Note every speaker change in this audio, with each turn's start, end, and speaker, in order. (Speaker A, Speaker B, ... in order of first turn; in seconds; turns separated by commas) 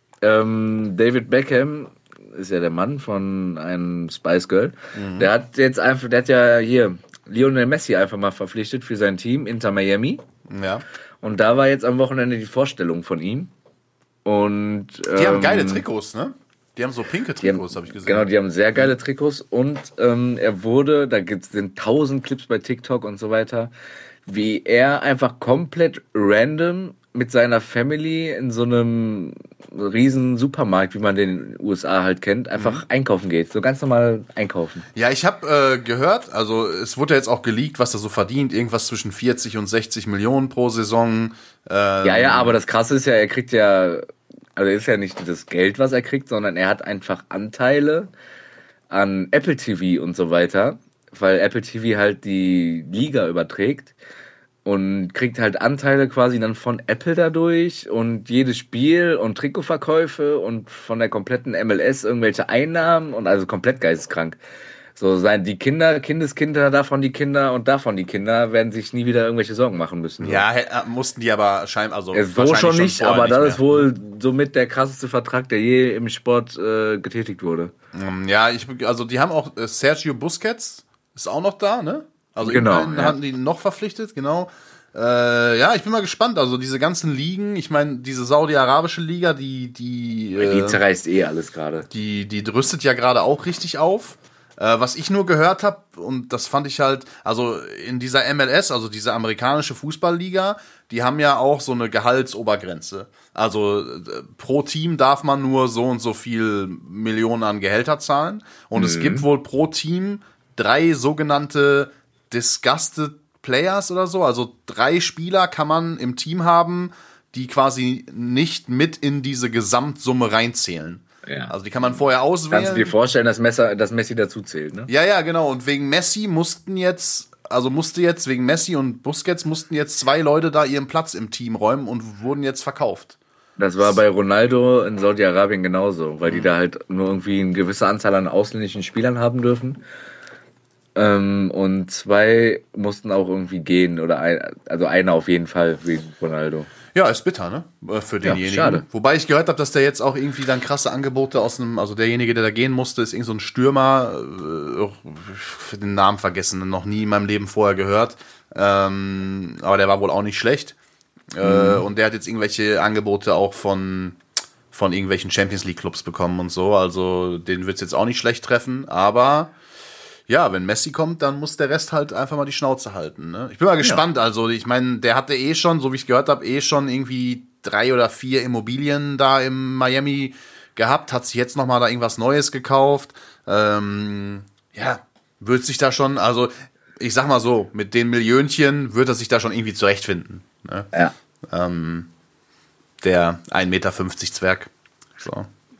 Speaker A: 0.2-10.2, Speaker B: 5.0-5.3, Speaker B: 10.5-10.8, Speaker A: 11.2-13.5, Speaker A: 14.2-15.8, Speaker B: 15.1-18.3, Speaker A: 17.4-23.7, Speaker A: 24.3-34.9, Speaker B: 32.6-32.8, Speaker B: 35.0-42.6, Speaker A: 42.0-48.1, Speaker A: 48.9-53.9, Speaker A: 54.6-64.4, Speaker A: 65.0-70.4, Speaker B: 70.2-73.9, Speaker A: 72.1-77.7, Speaker B: 77.9-90.8, Speaker A: 82.4-83.2, Speaker A: 90.4-91.9, Speaker B: 91.9-122.9, Speaker A: 108.8-109.2, Speaker A: 121.3-121.5, Speaker A: 122.5-124.9, Speaker B: 124.9-133.2, Speaker A: 133.6-139.8, Speaker A: 140.9-146.7, Speaker B: 146.9-160.8, Speaker A: 148.2-148.8, Speaker B: 161.3-164.2, Speaker A: 161.4-161.8, Speaker B: 164.7-169.5, Speaker B: 170.3-190.9, Speaker B: 191.5-192.1, Speaker B: 193.0-195.5